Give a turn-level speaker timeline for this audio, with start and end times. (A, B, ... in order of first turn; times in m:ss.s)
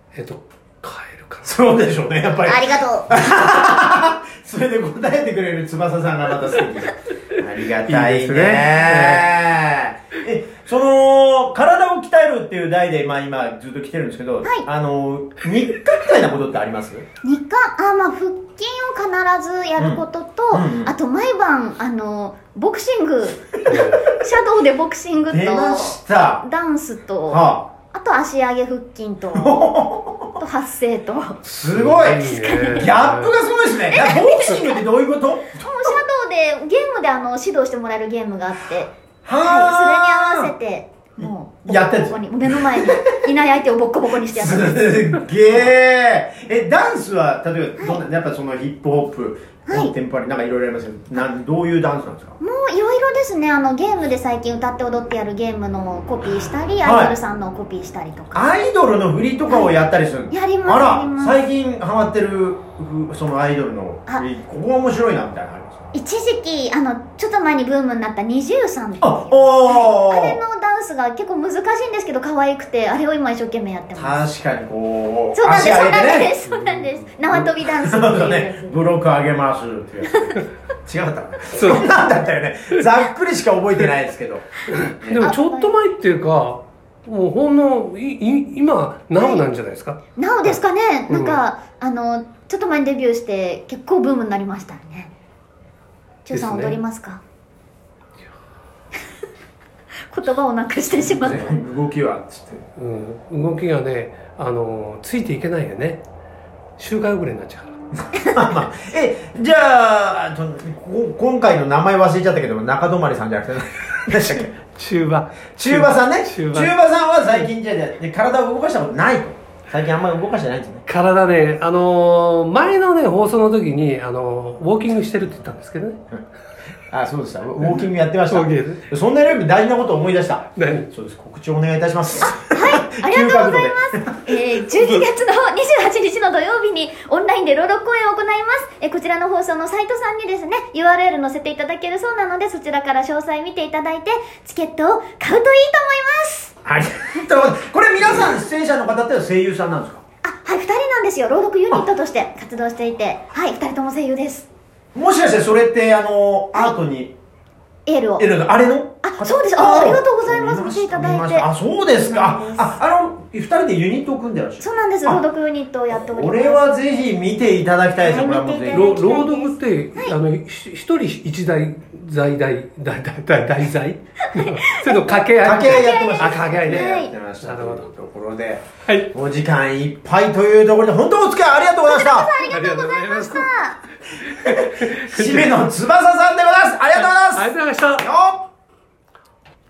0:00.1-0:01.6 A
0:01.4-0:17.0 B
0:02.4-0:03.3 C
0:07.9-0:09.4 A
0:17.2-0:29.8 C
0:19.8-0:20.9 B
0:23.7-0:24.1 A
0:25.3-0:26.4 B
0:27.3-0:27.6 B
0:29.4-0:30.4 B
0:30.4-0:31.4 C
0:31.4-0:35.9 B
0:31.7-0:33.4 A
0:32.3-0:32.9 C
0:33.9-0:34.8 C
0:35.6-0:44.8 C
0:39.2-0:40.5 B
0:41.2-0:43.2 B
0:44.3-0:52.4 B
0:47.8-0:48.0 C
0:49.7-0:50.0 C
0:52.4-0:58.5 C
0:56.8-0:57.2 B
0:58.3-1:05.9 B
0:59.5-0:59.7 C
1:00.3-1:01.4 C
1:05.9-1:14.2 C
1:09.0-1:10.4 B
1:14.0-1:16.3 B
1:15.3-1:18.8 C
1:16.5-1:17.1 A
1:17.3-1:25.3 B
1:20.1-1:20.4 C
1:21.5-1:21.9 A
1:24.8-1:30.6 A
1:25.2-1:25.8 C
1:29.2-1:29.4 C
1:30.2-1:35.1 C
1:31.1-1:31.4 A
1:36.3-1:37.2 C
1:36.3-1:36.8 A
1:40.1-1:41.6 C
1:40.9-1:42.7 B
1:42.8-1:46.0 A
1:46.8-1:47.7 A
1:48.0-1:54.5 B
1:54.5-1:56.7 A
1:55.6-2:00.9 B
2:00.9-2:06.0 A
2:06.9-2:14.2 B
2:08.3-2:08.8 A
2:10.6-2:10.9 A
2:12.2-2:26.6 C
2:26.6-2:30.0 B
2:30.2-2:34.5 C
2:35.0-2:37.2 B
2:37.9-2:38.3 C
2:38.2-2:45.2 B
2:39.0-2:42.8 C
2:44.6-2:46.8 C
2:45.9-2:49.0 B
2:48.0-2:50.2 C
2:48.7-2:57.9 A
2:54.4-2:57.1 C
2:55.4-3:02.3 B
2:58.9-2:59.1 A
3:01.8-3:03.8 C
3:02.4-3:03.5 A
3:04.4-3:08.5 B
3:04.4-3:05.6 A
3:07.0-3:08.1 A